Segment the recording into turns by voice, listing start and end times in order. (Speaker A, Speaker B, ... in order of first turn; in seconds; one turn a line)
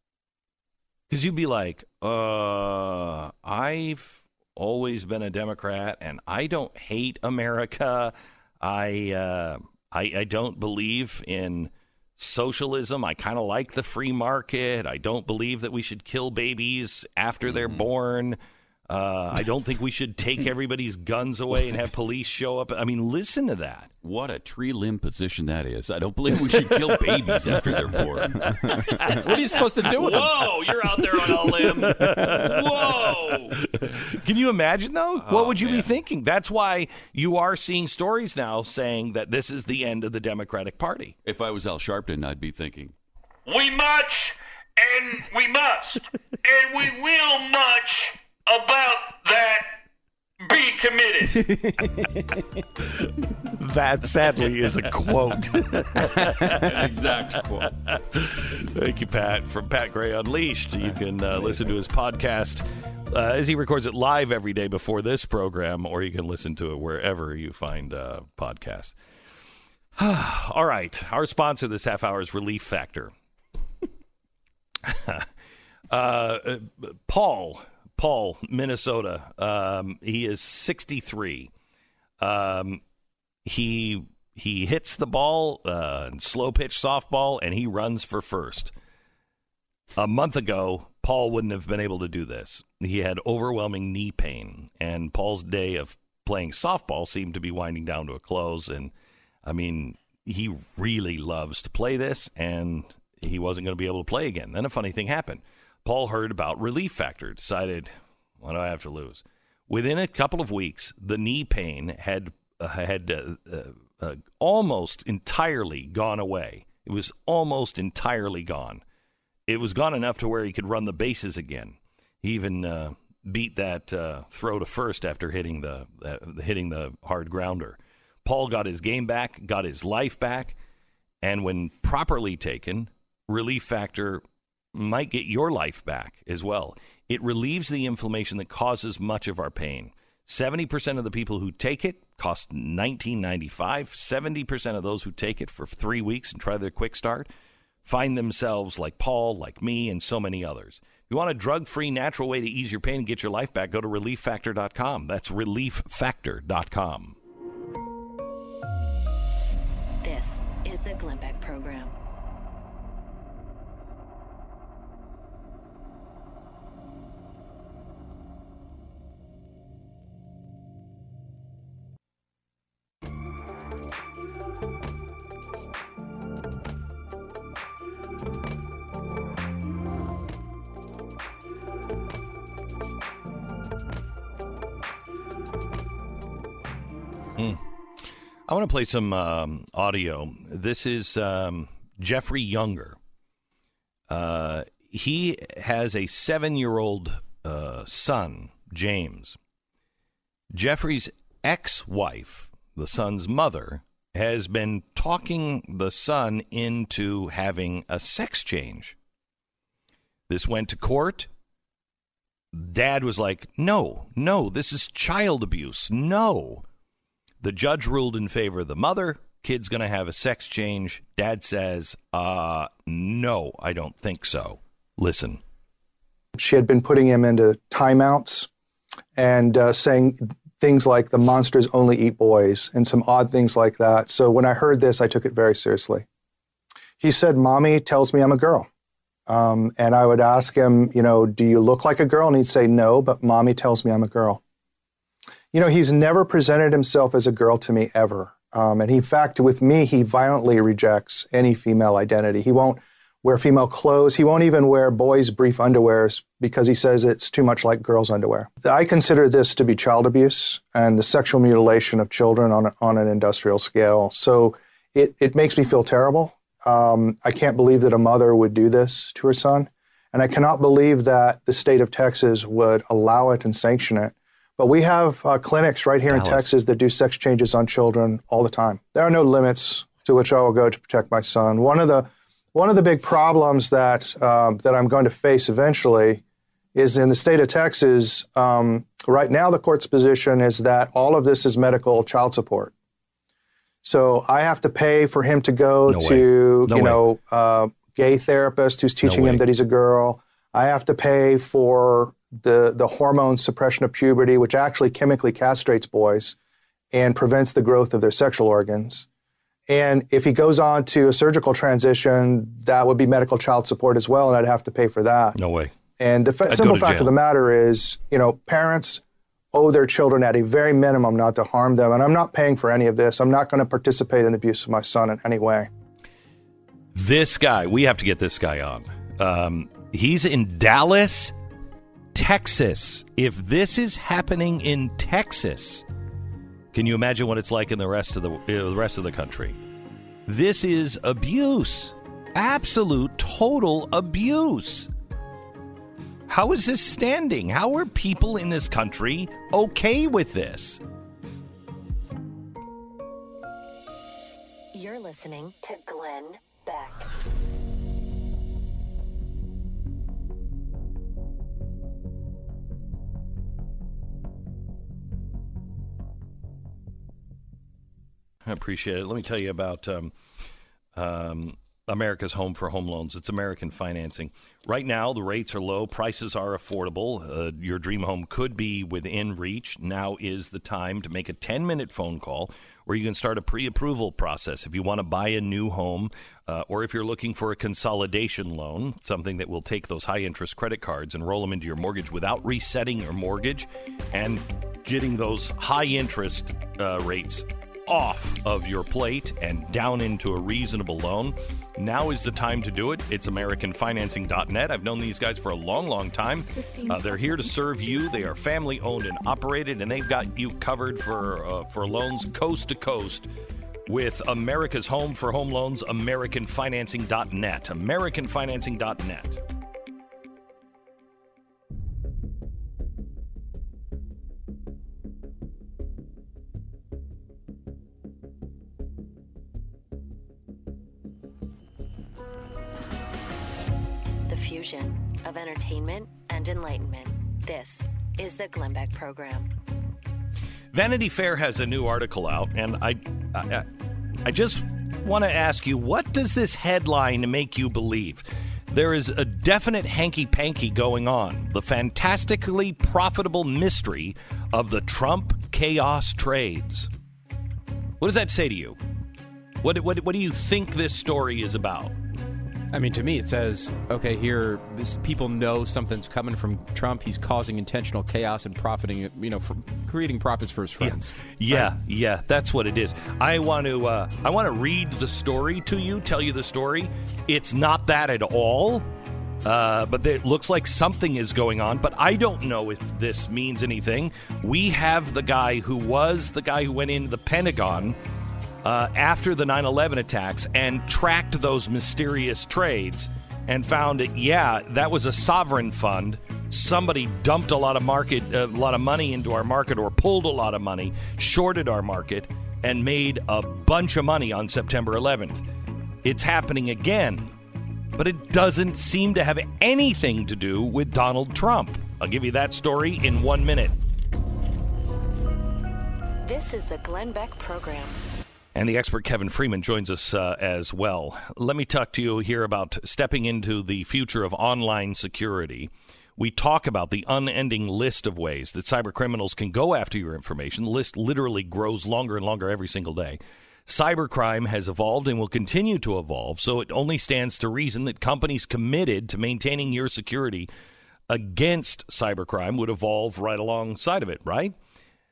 Speaker A: 1.1-23.9
Speaker B: 17.5-17.8
Speaker B: 24.0-34.0
Speaker C: 28.7-30.6
Speaker A: 31.2-41.1
Speaker B: 35.2-35.9
Speaker B: 41.2-42.9
Speaker D: 43.5-49.8
Speaker D: 50.4-51.5
Speaker A: 53.5-68.9
Speaker B: 56.0-57.7
Speaker A: 70.0-73.1
Speaker A: 74.8-75.3
Speaker A: 75.9-81.5
Speaker A: 82.2-82.8
Speaker A: 83.4-88.7
Speaker A: 90.0-98.9
Speaker A: 99.4-118.8
Speaker A: 119.5-130.6
Speaker A: 131.2-134.2
Speaker A: 134.7-147.3
Speaker A: 147.8-157.2
Speaker E: 160.0-161.9
Speaker A: 187.4-187.6
Speaker A: 188.5-193.0
Speaker A: 194.1-199.4
Speaker A: 200.5-208.9
Speaker A: 210.3-211.3
Speaker A: 212.5-216.6
Speaker A: 217.4-225.4
Speaker F: 226.3-228.5
Speaker F: 229.2-236.0
Speaker F: 237.0-238.7
Speaker F: 239.3-244.4
Speaker F: 245.5-286.2
Speaker A: 276.1-276.5
Speaker F: 286.7-292.7
Speaker F: 293.8-306.4
Speaker A: 295.9-297.0
Speaker A: 299.0-299.5
Speaker F: 306.9-309.1
Speaker F: 309.7-315.4
Speaker A: 315.3-315.7
Speaker F: 316.0-319.0
Speaker A: 316.5-317.1
Speaker F: 319.5-325.7
Speaker A: 326.9-331.3
Speaker A: 332.1-335.8
Speaker A: 336.7-339.6
Speaker A: 340.3-344.9
Speaker A: 346.3-350.8
Speaker E: 354.7-357.1
Speaker A: 368.5-370.1
Speaker A: 370.9-413.3
Speaker A: 413.9-419.4
Speaker E: 434.3-439.5
Speaker A: 440.7-443.7
Speaker A: 444.2-456.9
Speaker A: 458.0-458.8
Speaker A: 459.6-461.9
Speaker C: 462.7-471.7
Speaker A: 470.8-478.8
Speaker A: 479.4-488.0
Speaker A: 488.6-505.4
Speaker A: 506.0-507.3
Speaker A: 507.9-513.8
Speaker E: 516.2-518.0
Speaker A: 518.5-540.5
Speaker A: 541.1-544.5